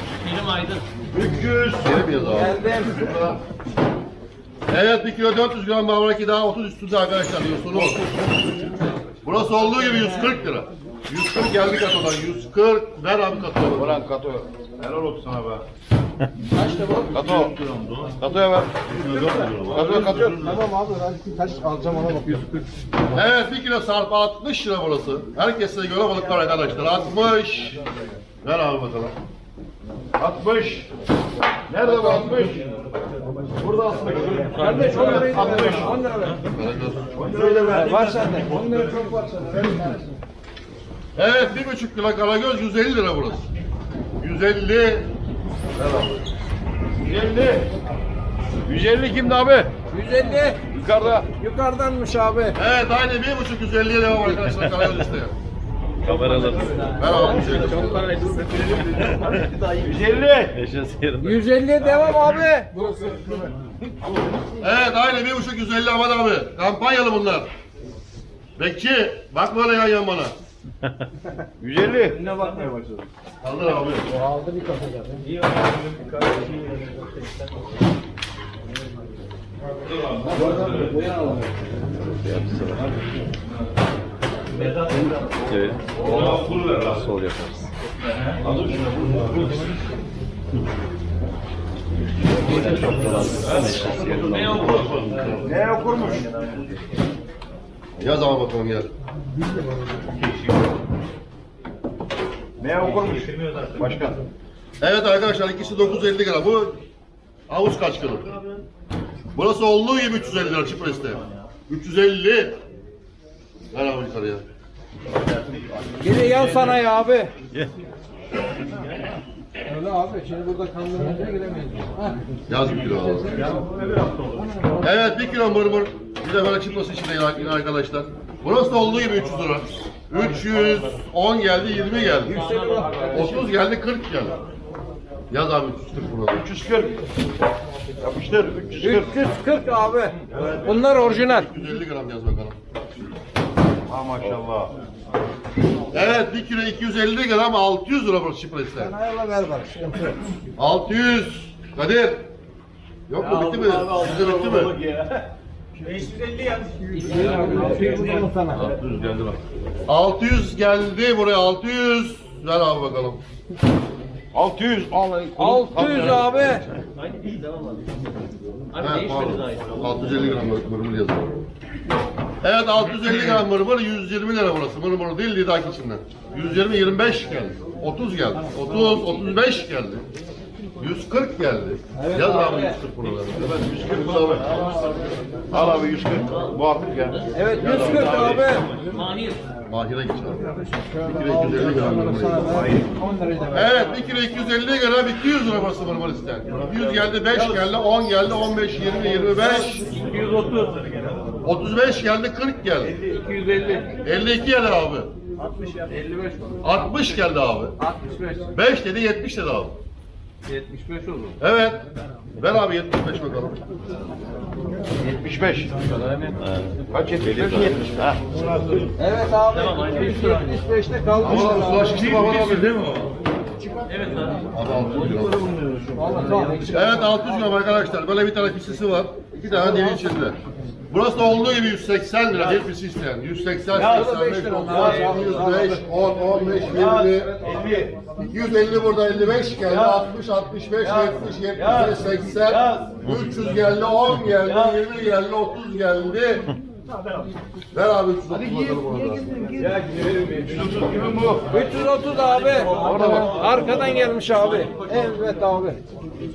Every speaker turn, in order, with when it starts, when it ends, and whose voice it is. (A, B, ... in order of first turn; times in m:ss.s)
0:00.2-0:00.8 A
0:01.1-0:03.4 B
0:01.8-0:02.6 C
0:02.3-0:03.1 D
0:04.7-0:08.1 C
0:09.2-0:14.0 C
0:13.7-0:15.6 B
0:16.5-0:17.3 D
0:17.1-0:20.6 B
0:17.7-0:18.1 C
0:18.9-0:20.6 C
0:20.0-0:22.7 D
0:23.1-0:27.8 C
0:28.4-0:29.2 C
0:30.2-0:30.9 B
0:31.7-0:32.7 B
0:31.9-0:32.2 D
0:33.6-0:36.0 B
0:34.5-0:36.4 D
0:36.5-0:37.1 C
0:37.2-0:38.3 B
0:37.7-0:40.2 D
0:41.2-0:43.5 C
0:44.2-0:45.1 C
0:45.8-0:46.3 C
0:47.0-0:47.7 B
0:48.7-0:49.7 B
0:49.9-0:50.6 D
0:50.7-0:51.3 B
0:51.4-0:52.6 D
0:52.6-0:55.3 C
0:56.0-0:57.0 E
0:56.4-1:00.1 A
0:57.0-0:58.0 C
0:57.1-0:58.1 D
0:59.8-1:00.6 B
1:00.5-1:01.4 E
1:01.2-1:03.1 D
1:04.6-1:07.5 C
1:08.6-1:10.4 C
1:11.6-1:12.3 B
1:12.2-1:13.0 A
1:13.4-1:14.1 C
1:14.1-1:15.3 D
1:15.3-1:17.4 A
1:20.3-1:21.5 D
1:21.8-1:22.9 E
1:24.6-1:25.2 A
1:25.5-1:27.7 E
1:25.9-1:26.8 B
1:28.4-1:29.8 B
1:32.4-1:34.8 E
1:33.5-1:35.3 A
1:34.6-1:35.5 C
1:35.4-1:36.4 B
1:38.0-1:38.9 C
1:42.6-1:44.2 B
1:43.0-1:43.8 A
1:44.8-1:46.8 C
1:47.5-1:48.3 C
1:49.3-1:52.6 C
1:53.7-1:54.4 C
1:56.0-1:57.3 D
1:59.7-2:02.2 D
2:02.5-2:03.4 C
2:02.9-2:03.7 D
2:04.8-2:12.4 C
2:12.2-2:13.3 A
2:12.2-2:13.5 D
2:13.1-2:14.4 C
2:15.3-2:16.4 C
2:16.3-2:17.0 B
2:18.0-2:19.2 B
2:18.8-2:21.5 D
2:20.3-2:22.6 C
2:23.9-2:24.7 B
2:25.9-2:29.0 C
2:28.8-2:30.2 D
2:30.6-2:32.3 C
2:33.1-2:34.7 C
2:33.2-2:35.3 A
2:35.8-2:38.1 A
2:37.0-2:38.7 D
2:37.2-2:39.4 B
2:39.9-2:43.2 C
2:44.3-2:46.6 B
2:45.4-2:46.6 D
2:47.0-2:47.9 A
2:48.7-2:49.7 A
2:48.8-2:51.4 C
2:52.4-3:00.1 C
3:00.8-3:04.6 C
3:02.0-3:02.8 D
3:03.4-3:04.6 B
3:04.6-3:04.9 A
3:05.5-3:08.4 B
3:06.0-3:06.5 A
3:07.1-3:09.4 A
3:07.3-3:08.7 D
3:07.6-3:08.4 C
3:09.7-3:10.4 C
3:10.5-3:13.8 D
3:11.0-3:12.5 C
3:12.4-3:12.9 B
3:13.5-3:19.8 C
3:17.3-3:17.6 B
3:19.9-3:20.9 A
3:21.4-3:23.0 C
3:23.1-3:23.8 A
3:24.0-3:25.1 C
3:25.4-3:26.4 A
3:26.6-3:27.8 C
3:27.8-3:28.5 D
3:28.5-3:29.8 C
3:30.5-3:31.4 A
3:31.4-3:31.8 C
3:32.4-3:33.6 C
3:35.0-3:35.7 B
3:36.0-3:36.3 A
3:36.4-3:38.2 E
3:36.9-3:38.8 B
3:39.0-3:42.4 D
3:39.5-3:40.6 A
3:41.2-3:43.1 C
3:43.9-3:46.7 A
3:44.5-3:45.4 C
3:46.0-3:47.5 D
3:46.7-3:50.4 C
3:49.5-3:50.2 D
3:50.9-3:57.3 C
3:53.7-3:55.8 D
3:53.8-3:54.1 B
3:54.7-3:55.1 B
3:56.7-3:58.0 B
3:58.2-4:06.5 C
3:59.6-4:00.0 B
4:00.8-4:03.0 B
4:03.0-4:03.3 E
4:04.4-4:04.8 B
4:07.7-4:09.2 C
4:08.3-4:09.7 D
4:09.6-4:11.5 B
4:11.5-4:15.8 D
4:12.2-4:15.1 A
4:12.7-4:13.5 B